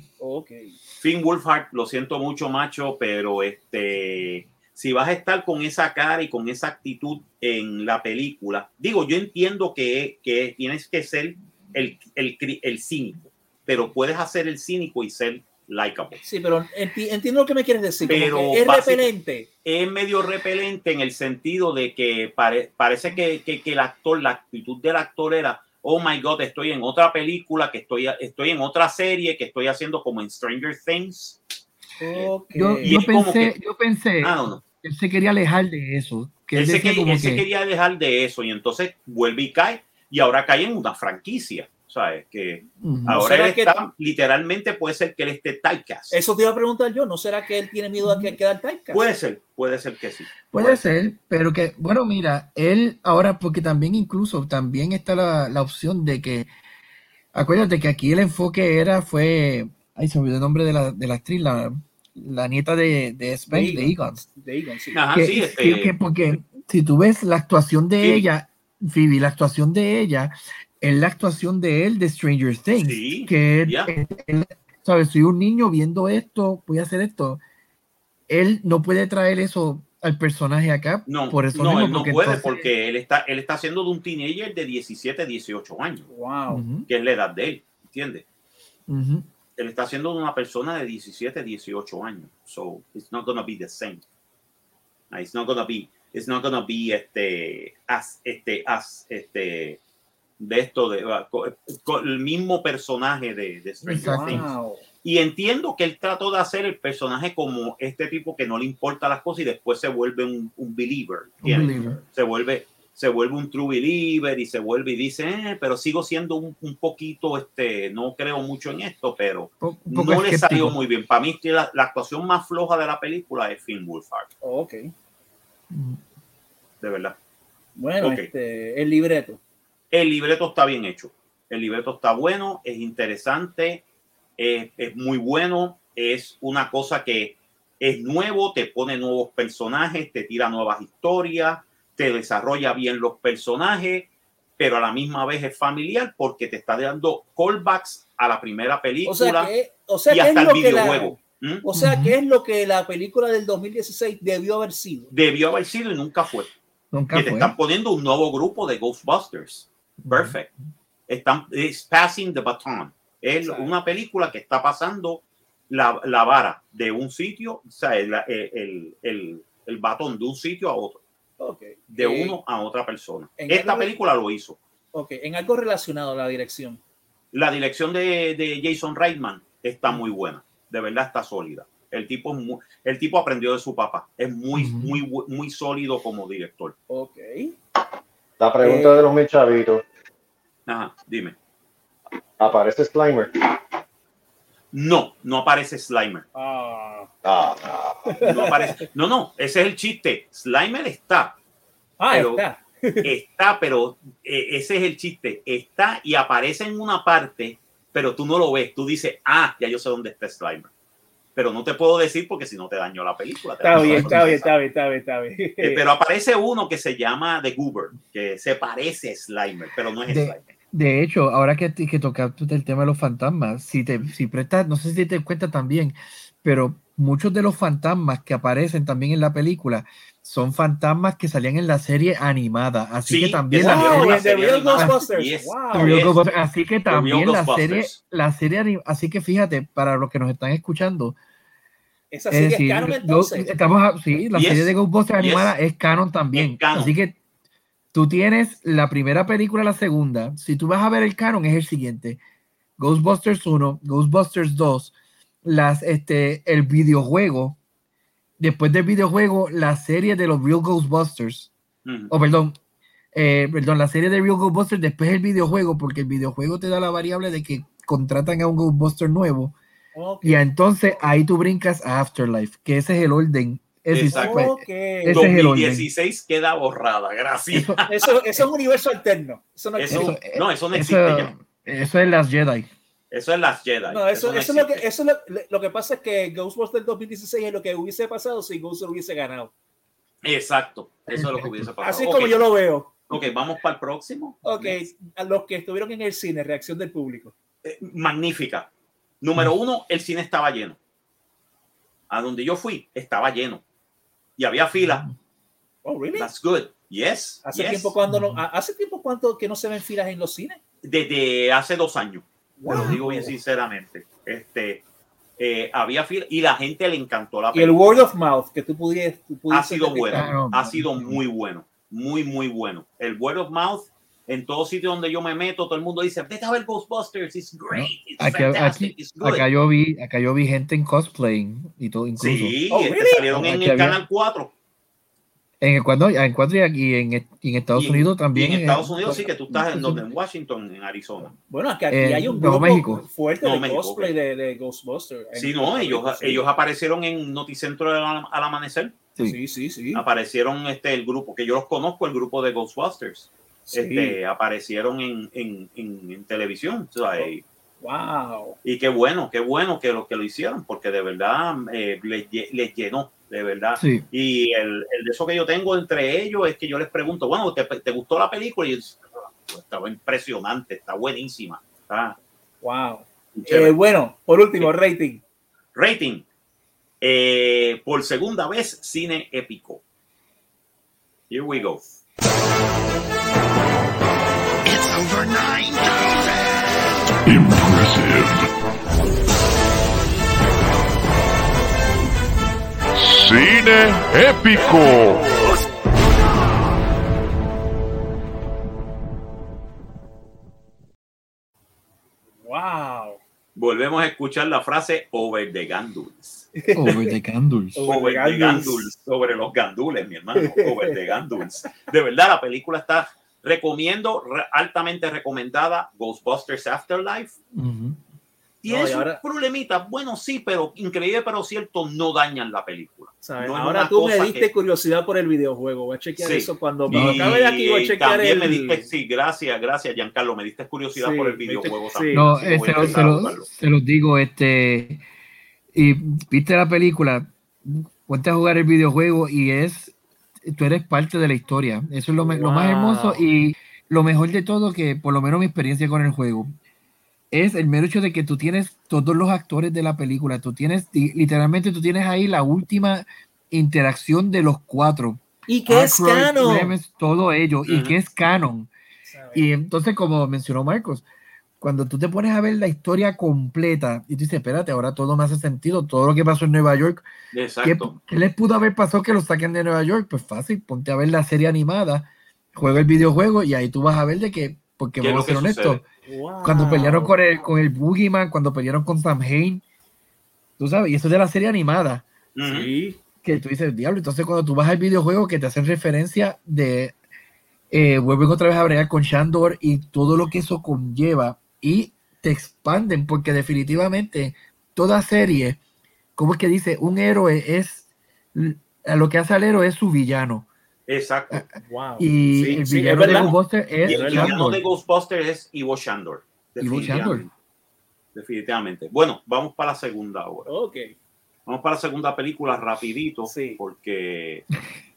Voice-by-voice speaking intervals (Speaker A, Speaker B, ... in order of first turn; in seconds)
Speaker A: 0.2-0.8, 16.2-19.5, 32.0-33.0, 43.1-43.7, 46.1-49.0, 63.5-65.0, 81.5-82.0, 86.1-86.6, 104.0-104.8, 124.4-124.9, 127.8-129.4, 149.0-155.1, 163.4-163.7, 171.4-172.4, 173.4-173.9, 174.9-176.8, 186.9-187.5, 188.6-189.1, 196.3-197.1, 198.1-198.8, 202.0-203.1, 213.6-215.8, 233.5-236.1, 242.1-243.5, 269.9-271.0, 274.1-275.3, 277.9-280.1, 283.9-289.5, 291.8-292.9, 294.4-297.3, 305.8-306.3, 307.4-310.6, 312.6-313.3, 317.5-320.4, 332.7-333.3, 341.5-346.5, 349.2-350.0, 353.7-354.2, 357.8-358.6, 372.6-375.2, 402.4-403.2, 406.6-407.1, 407.7-408.9, 410.4-411.1, 418.7-419.2, 423.2-428.9, 430.9-433.0, 442.2-443.2, 455.5-456.7, 459.1-459.5, 476.1-477.1, 482.4-483.0, 501.6-503.3, 503.8-504.4, 510.5-510.9, 513.3-513.6
Speaker B: 1.0-16.2, 18.1-19.1, 19.6-31.4, 32.8-33.5, 34.2-34.6, 36.5-46.1, 48.9-50.8, 64.9-65.9, 68.0-68.3, 72.8-73.9, 81.1-86.1, 86.9-88.2, 89.6-94.0, 95.1-99.8, 100.4-104.4, 105.0-124.3, 126.8-127.2, 128.0-128.3, 129.9-133.8, 134.4-149.5, 150.1-151.6, 155.1-156.5, 157.1-160.5, 161.1-171.0, 171.9-174.6, 177.3-186.8, 190.7-191.3, 194.7-196.2, 198.2-201.4, 202.1-202.4, 203.0-210.7, 211.3-214.5, 215.6-220.4, 233.1-236.2, 236.9-238.0, 244.3-245.5, 246.3-246.9, 261.8-262.1, 273.9-274.5, 275.1-277.9, 279.8-281.3, 283.1-284.8, 290.2-292.4, 293.1-294.8, 297.6-298.7, 299.2-300.8, 302.1-303.6, 304.4-305.1, 306.1-307.9, 310.8-314.8, 315.4-318.1, 319.5-329.4, 332.2-334.5, 337.7-341.3, 343.4-344.1, 345.3-348.9, 349.9-357.4, 358.6-372.2, 373.3-373.7, 375.7-376.2, 377.0-379.8, 381.3-381.8, 403.6-406.5, 407.9-417.3, 418.6-424.5, 426.2-433.5, 457.7-457.9, 467.3-467.9, 475.0-475.8, 482.3-482.7, 500.9-501.4, 502.3-507.3, 508.1-510.5, 511.4-514.5
Speaker C: 32.5-37.4, 42.8-43.2, 48.0-48.3, 50.5-56.5, 57.3-64.3, 65.1-77.4, 78.3-82.7, 86.5-86.9, 88.9-89.2, 103.9-104.5, 111.4-112.0, 119.6-120.8, 125.7-126.0, 151.7-152.2, 156.9-157.5, 160.0-160.3, 184.5-185.0, 213.7-214.2, 220.1-234.2, 235.7-241.2, 242.3-247.2, 247.9-252.2, 252.8-254.9, 255.4-257.6, 258.4-261.5, 262.1-262.6, 263.1-269.6, 270.2-275.9, 277.5-277.8, 279.9-282.7, 291.1-291.7, 304.7-305.1, 308.1-308.4, 312.7-312.9, 320.1-321.2, 327.7-332.5, 333.3-334.0, 335.6-340.0, 341.9-343.0, 363.8-364.0, 406.7-407.9, 417.5-418.0, 426.9-427.3, 432.1-435.0, 435.7-446.5, 447.3-458.7, 459.3-461.0, 461.6-467.1, 467.6-475.9, 476.4-479.6, 480.6-482.0, 483.2-486.9, 487.7-495.6, 496.2-500.5, 502.0-504.6, 506.6-507.2
Speaker D: 188.4-189.8, 192.4-193.6, 197.2-198.2
Speaker E: 384.6-386.4, 387.2-388.5, 392.9-395.3